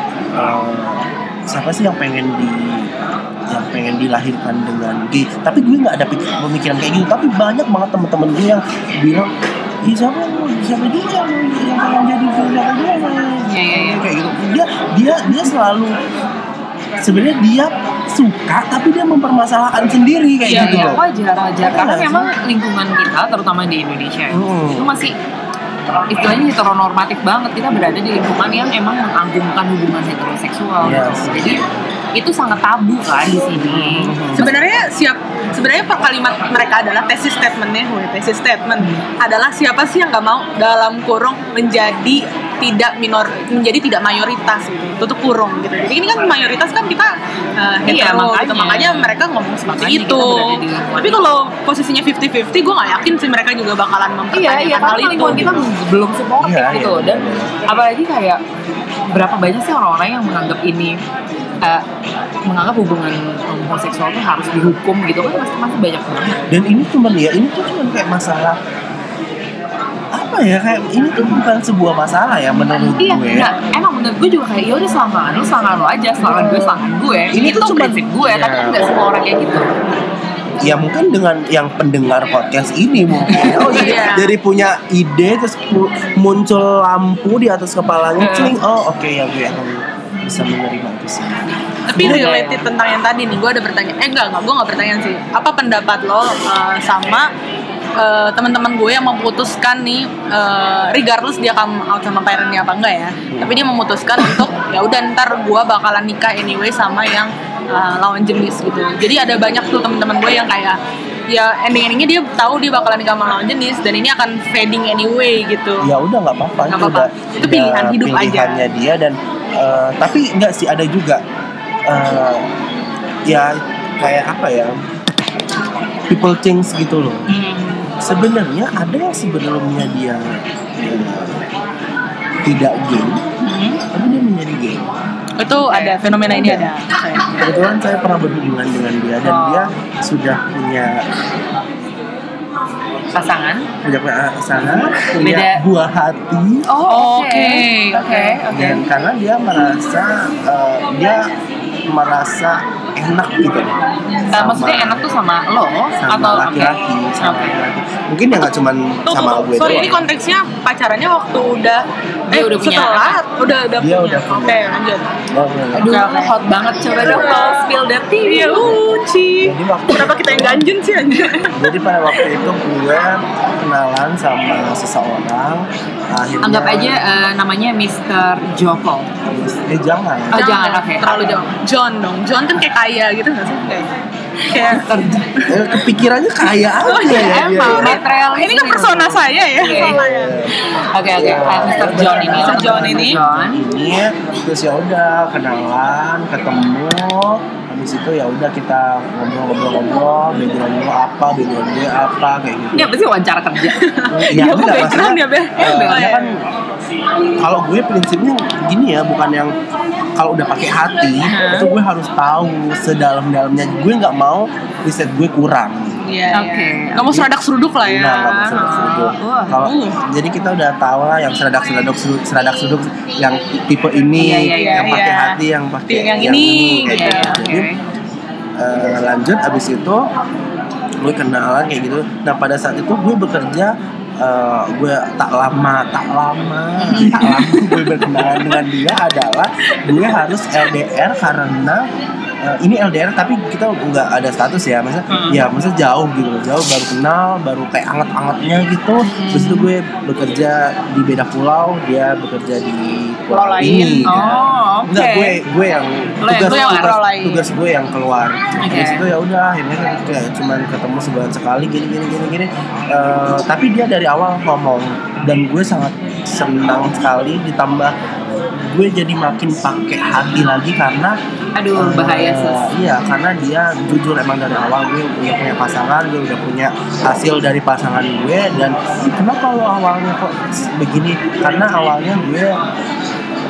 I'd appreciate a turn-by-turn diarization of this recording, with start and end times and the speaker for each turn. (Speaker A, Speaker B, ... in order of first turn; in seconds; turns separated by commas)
Speaker A: 0.3-2.9, Speaker A: 3.5-9.3, Speaker A: 9.8-16.0, Speaker B: 13.5-14.1, Speaker A: 17.0-21.0, Speaker B: 20.4-25.1, Speaker C: 20.5-20.9, Speaker A: 21.6-22.3, Speaker A: 24.3-24.9, Speaker B: 26.1-31.6, Speaker A: 30.8-31.7, Speaker B: 32.1-34.5, Speaker A: 33.5-34.5, Speaker C: 34.3-55.6, Speaker B: 47.9-49.1, Speaker B: 49.7-51.2, Speaker B: 54.3-58.4, Speaker A: 55.2-55.7, Speaker A: 56.4-57.5, Speaker B: 59.1-61.0, Speaker B: 62.5-66.5, Speaker A: 66.5-68.6, Speaker A: 70.1-73.5, Speaker B: 72.8-79.7, Speaker A: 77.3-78.9, Speaker A: 80.6-92.3, Speaker B: 83.2-84.0, Speaker C: 83.6-84.3, Speaker B: 88.2-88.5, Speaker B: 90.2-90.5, Speaker C: 91.9-97.3, Speaker B: 92.0-92.7, Speaker C: 98.0-110.8, Speaker A: 103.3-103.7, Speaker C: 111.3-115.9, Speaker A: 115.8-121.2, Speaker C: 116.7-118.7, Speaker A: 121.9-122.4, Speaker A: 123.3-124.7, Speaker A: 126.1-127.3, Speaker C: 127.3-127.9, Speaker A: 128.0-131.4, Speaker A: 132.4-133.2, Speaker B: 133.4-133.8, Speaker A: 133.9-134.9, Speaker C: 135.4-137.4, Speaker B: 135.5-136.2, Speaker A: 136.2-136.7, Speaker A: 137.3-141.0, Speaker B: 139.2-139.7, Speaker B: 143.1-143.7, Speaker A: 143.8-146.7, Speaker B: 145.2-145.6, Speaker B: 146.7-148.8, Speaker C: 146.7-148.4, Speaker A: 148.5-151.2, Speaker A: 151.9-153.8, Speaker A: 154.3-155.1, Speaker B: 154.3-157.6, Speaker A: 156.0-160.1, Speaker C: 159.1-165.1, Speaker B: 162.3-163.2, Speaker A: 163.8-164.7, Speaker A: 165.3-165.9, Speaker B: 165.7-168.7, Speaker C: 165.9-166.3, Speaker C: 167.0-167.7, Speaker A: 167.0-167.3, Speaker C: 168.2-172.3, Speaker A: 169.4-170.7, Speaker A: 171.5-177.0, Speaker B: 176.4-179.1, Speaker A: 179.2-180.4, Speaker B: 180.3-181.5, Speaker C: 180.3-183.9, Speaker C: 184.4-185.8, Speaker B: 184.7-185.2, Speaker A: 185.5-188.0, Speaker C: 186.8-190.8, Speaker B: 187.0-190.0, Speaker A: 189.6-190.5, Speaker B: 190.9-193.6, Speaker A: 191.1-202.9, Speaker C: 192.0-193.2, Speaker B: 202.7-203.9, Speaker C: 203.6-206.3, Speaker A: 204.1-206.4, Speaker B: 205.6-206.1, Speaker A: 207.4-209.5, Speaker A: 210.2-216.0, Speaker C: 211.3-211.7, Speaker C: 216.0-220.0, Speaker B: 216.3-217.1, Speaker A: 217.0-217.3, Speaker A: 217.8-227.7, Speaker B: 219.2-219.5, Speaker B: 224.2-224.9, Speaker C: 224.5-227.4, Speaker B: 226.9-227.8, Speaker A: 228.6-230.1, Speaker A: 231.0-241.8, Speaker B: 236.8-237.5, Speaker A: 242.4-267.9, Speaker B: 245.1-245.4, Speaker B: 249.0-249.7, Speaker C: 253.3-254.3, Speaker B: 254.0-255.4, Speaker B: 256.2-257.0, Speaker C: 256.3-257.5, Speaker B: 258.6-259.0, Speaker A: 268.7-271.1, Speaker B: 271.6-272.7, Speaker A: 271.7-282.6